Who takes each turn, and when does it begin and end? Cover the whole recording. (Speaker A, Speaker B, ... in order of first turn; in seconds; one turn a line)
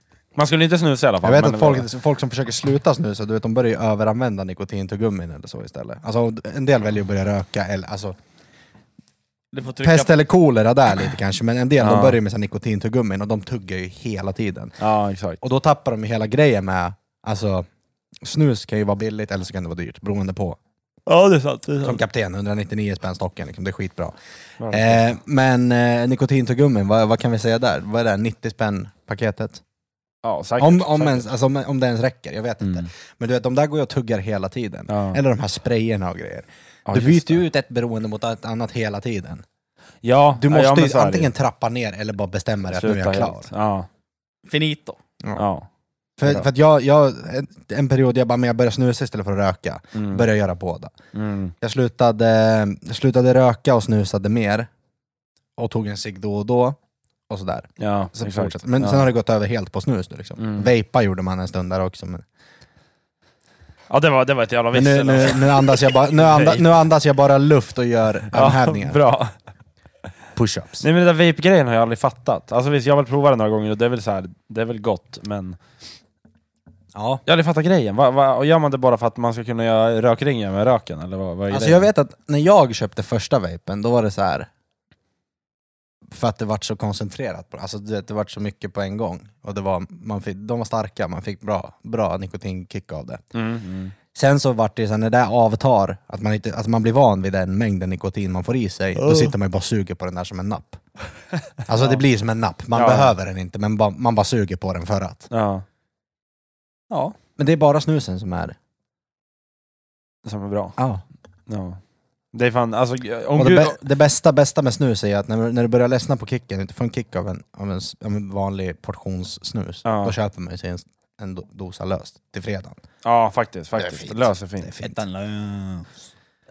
Speaker A: 0.3-1.9
Speaker B: 1.2-8.1
Speaker C: 9.5-10.1
Speaker B: 9.8-14.8
Speaker A: 11.8-12.2
Speaker A: 14.8-15.4
Speaker B: 15.4-17.6
Speaker B: 18.2-20.6
Speaker A: 21.1-22.0
Speaker B: 21.8-24.1
Speaker A: 24.6-25.0
Speaker B: 24.7-29.6
Speaker A: 30.2-31.3
Speaker B: 30.6-39.4
Speaker A: 32.6-32.9
Speaker A: 34.9-35.2
Speaker A: 36.9-37.4
Speaker A: 40.0-41.3
Speaker B: 40.4-43.5
Speaker A: 42.7-43.9
Speaker C: 44.5-45.0
Speaker A: 45.4-45.7
Speaker B: 46.2-50.9
Speaker A: 49.9-50.3
Speaker A: 51.1-51.5
Speaker B: 51.6-54.7
Speaker B: 55.6-56.8
Speaker B: 57.3-62.2
Speaker A: 57.8-59.1
Speaker A: 60.4-60.7
Speaker A: 63.9-66.7
Speaker B: 64.7-69.0
Speaker A: 68.3-69.3
Speaker B: 70.4-70.8
Speaker A: 70.8-75.6
Speaker B: 76.9-77.2
Speaker A: 77.3-81.9
Speaker B: 81.5-84.5
Speaker B: 86.1-93.2
Speaker A: 93.3-93.9
Speaker B: 94.1-100.8
Speaker A: 99.0-99.3
Speaker B: 101.7-105.3
Speaker A: 102.7-103.1
Speaker A: 105.3-105.6
Speaker A: 106.9-107.1
Speaker B: 107.4-108.6
Speaker A: 110.2-110.8
Speaker B: 110.8-111.0
Speaker A: 111.5-111.8
Speaker A: 112.3-113.8
Speaker B: 113.4-122.8
Speaker A: 119.8-120.2
Speaker A: 123.0-124.7
Speaker B: 123.8-125.0
Speaker C: 124.8-125.9